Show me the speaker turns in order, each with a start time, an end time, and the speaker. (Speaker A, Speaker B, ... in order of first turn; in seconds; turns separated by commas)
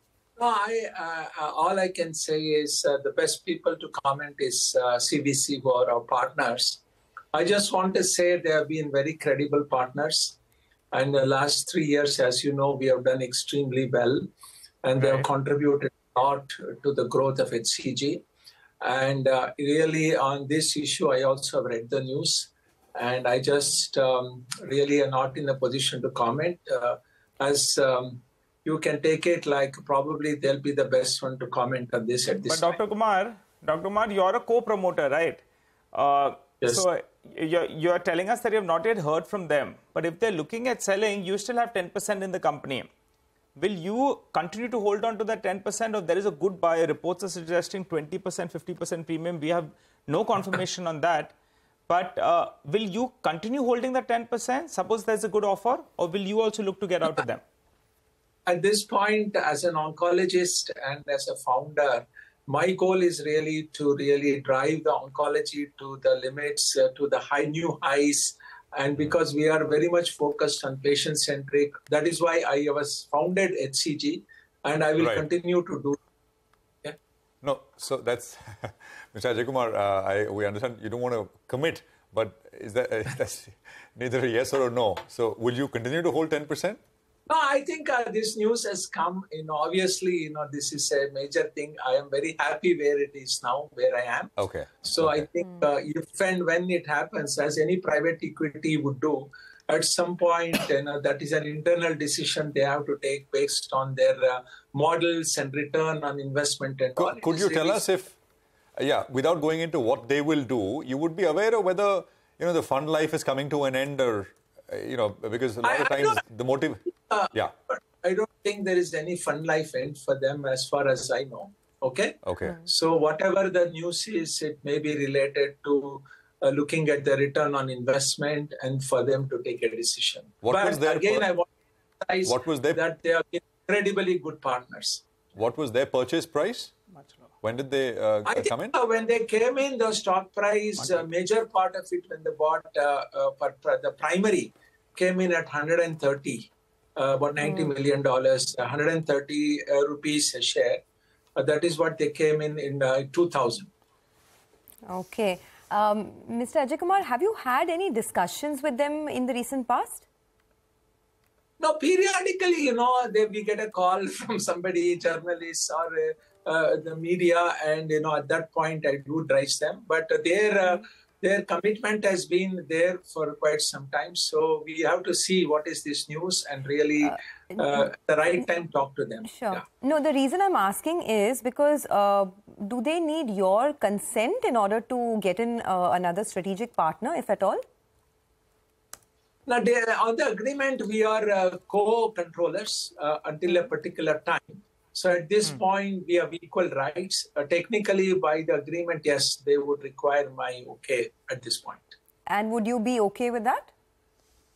Speaker A: 0.4-6.8, Speaker A: 7.3-10.4, Speaker A: 10.9-14.3, Speaker A: 14.8-18.2, Speaker B: 15.0-15.2, Speaker A: 18.8-32.8, Speaker B: 32.4-42.9, Speaker B: 43.5-51.4, Speaker B: 51.9-57.4, Speaker A: 58.5-76.0, Speaker C: 75.0-75.2, Speaker C: 77.4-86.8, Speaker A: 87.3-94.3, Speaker C: 94.4-95.2, Speaker A: 94.8-107.8, Speaker C: 107.0-108.2, Speaker C: 108.8-117.5, Speaker A: 115.6-116.2, Speaker A: 117.1-131.4, Speaker C: 122.2-122.6, Speaker C: 130.4-131.3, Speaker A: 132.0-135.0, Speaker C: 132.2-132.8, Speaker C: 135.3-136.7, Speaker C: 137.4-138.8, Speaker A: 138.3-150.8, Speaker D: 147.4-147.7, Speaker A: 151.3-153.7, Speaker D: 154.9-160.1, Speaker A: 161.6-179.6, Speaker D: 177.1-177.9, Speaker D: 179.2-187.6, Speaker A: 189.4-201.9, Speaker D: 202.3-203.7